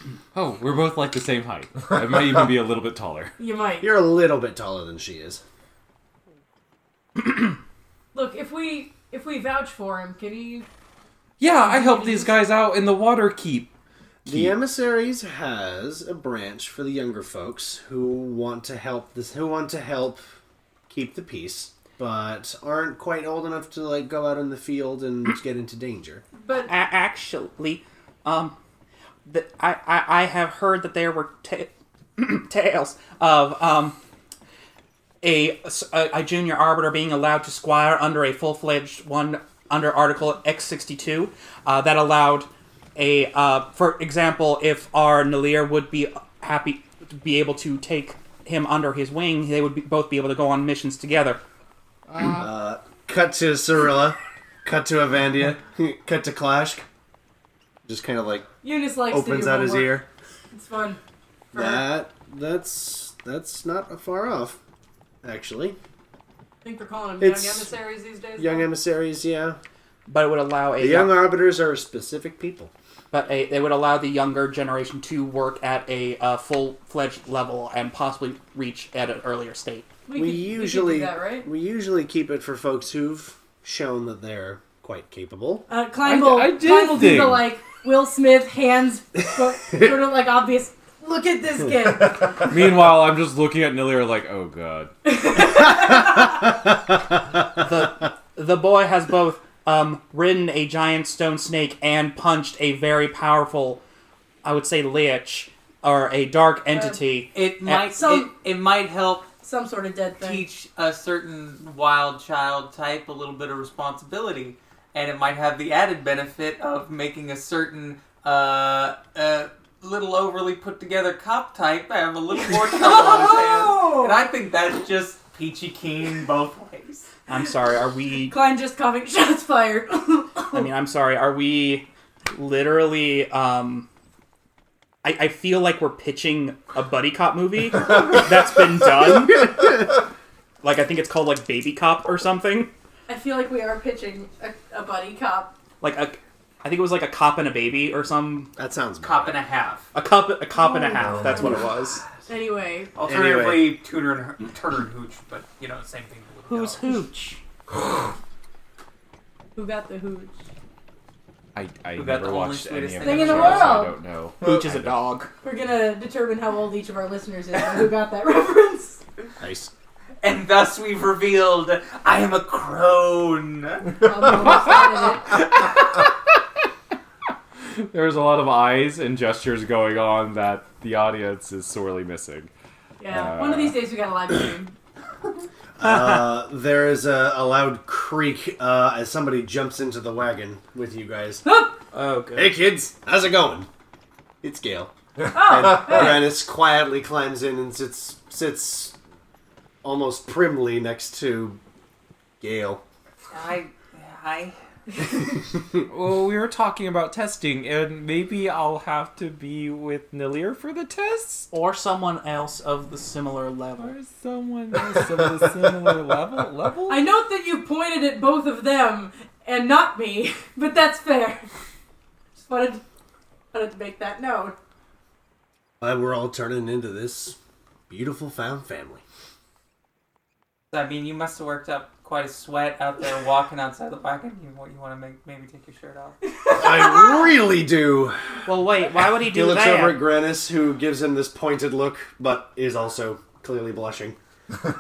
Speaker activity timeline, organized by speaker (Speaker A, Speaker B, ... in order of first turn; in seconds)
Speaker A: 0.3-3.4, 11.4-13.7, 14.3-14.5, 86.0-87.5, 92.4-94.9, 161.6-164.9, 177.7-182.5, 183.1-183.8, 205.9-211.5, 213.8-217.0
Speaker B: 3.4-3.9, 8.1-10.7, 11.5-12.5, 26.4-26.7, 58.6-60.0, 60.5-61.0, 61.5-61.9, 66.6-68.7, 80.1-81.5, 85.7-92.5, 95.1-96.3, 106.7-107.0, 107.9-108.3, 109.4-110.4, 122.5-124.2, 128.2-130.7, 143.1-145.5, 150.6-151.5, 152.3-153.0, 159.6-160.3, 163.0-164.0, 165.4-169.1, 174.0-175.5, 183.0-184.8, 191.4-191.8, 195.3-196.2, 216.9-221.5, 222.4-222.8, 223.5-224.6, 236.4-237.3
Speaker C: 3.8-5.4, 14.2-20.3, 20.9-26.2, 52.4-56.9, 57.9-58.5, 59.1-60.1, 61.5-64.6, 65.2-65.8, 67.2-67.7, 68.4-69.6, 70.8-72.7, 80.2-85.7, 148.6-149.4, 153.0-153.8, 169.4-169.7, 185.8-191.4, 192.3-193.7, 194.4-199.0, 199.8-201.6, 202.4-202.8, 225.8-227.4, 227.9-229.0, 236.5-238.2, 239.0-244.2
Speaker D: 26.5-28.6, 29.3-34.0, 35.2-51.4, 52.1-52.4, 70.1-71.3, 73.1-79.9, 97.6-103.8, 104.4-107.9, 127.3-128.4, 130.5-133.9, 135.0-139.7, 140.6-142.7, 145.8-148.5, 149.9-152.0, 156.5-157.4, 164.4-165.3, 191.9-192.5, 211.5-214.0, 238.5-240.0
Speaker E: 107.3-109.3, 110.2-127.1, 149.0-149.9, 153.0-156.9, 161.9-163.8, 170.2-174.1, 203.3-204.6, 230.7-236.2